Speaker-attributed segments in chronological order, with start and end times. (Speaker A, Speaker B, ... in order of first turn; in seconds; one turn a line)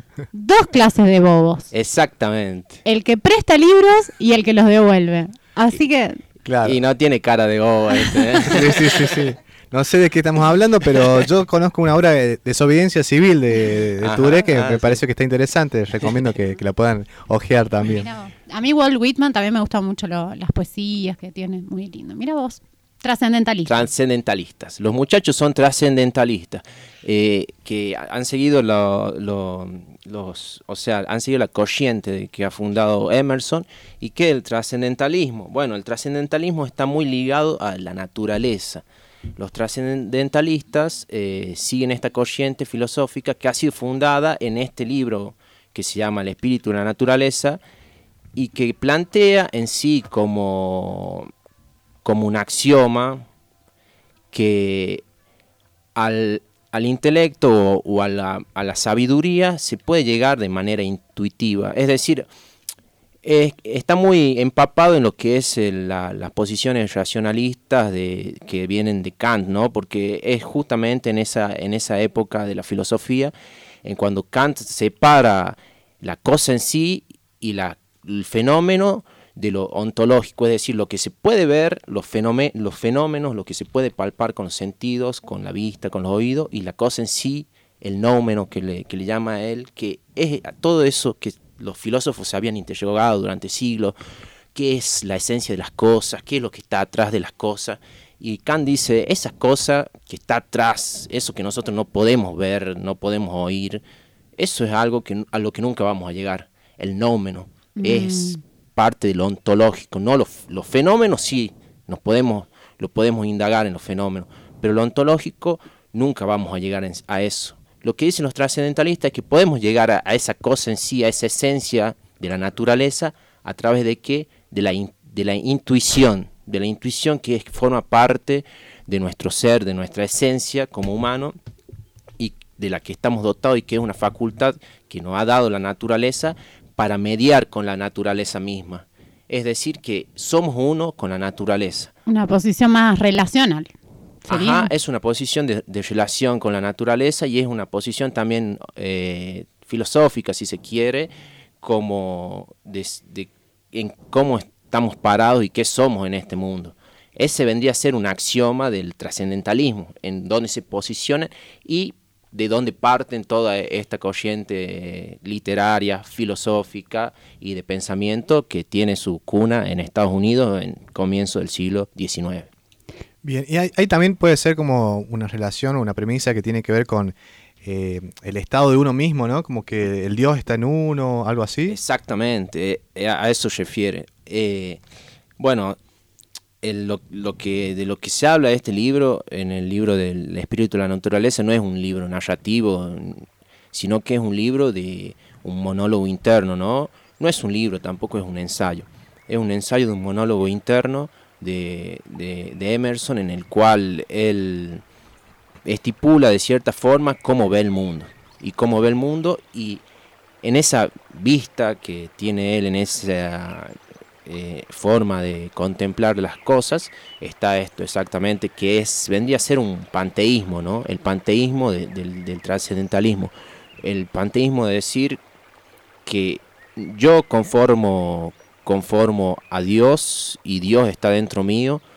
Speaker A: 0.3-1.7
Speaker B: 1.7-2.8
Speaker A: 2.9-6.2
Speaker C: 6.5-6.8
Speaker B: 6.6-9.2
Speaker C: 8.5-18.1
Speaker B: 14.0-15.0
Speaker A: 18.0-23.9
Speaker B: 23.7-38.8
Speaker B: 39.4-47.6
Speaker B: 48.4-51.3
Speaker B: 52.0-53.2
Speaker B: 54.3-55.0
Speaker B: 56.0-62.3
Speaker B: 63.2-73.3
Speaker B: 73.8-94.0
Speaker B: 94.5-103.8
Speaker B: 104.4-131.3
Speaker A: 107.8-108.4
Speaker B: 132.2-141.9
Speaker A: 142.1-143.7
Speaker A: 144.2-144.7
Speaker B: 144.3-151.1
Speaker B: 151.6-172.5
Speaker C: 173.2-181.8
Speaker B: 181.7-184.8
Speaker B: 185.4-185.8
Speaker B: 186.6-204.8
Speaker B: 205.7-209.8
Speaker B: 210.4-225.2
Speaker B: 226.1-231.8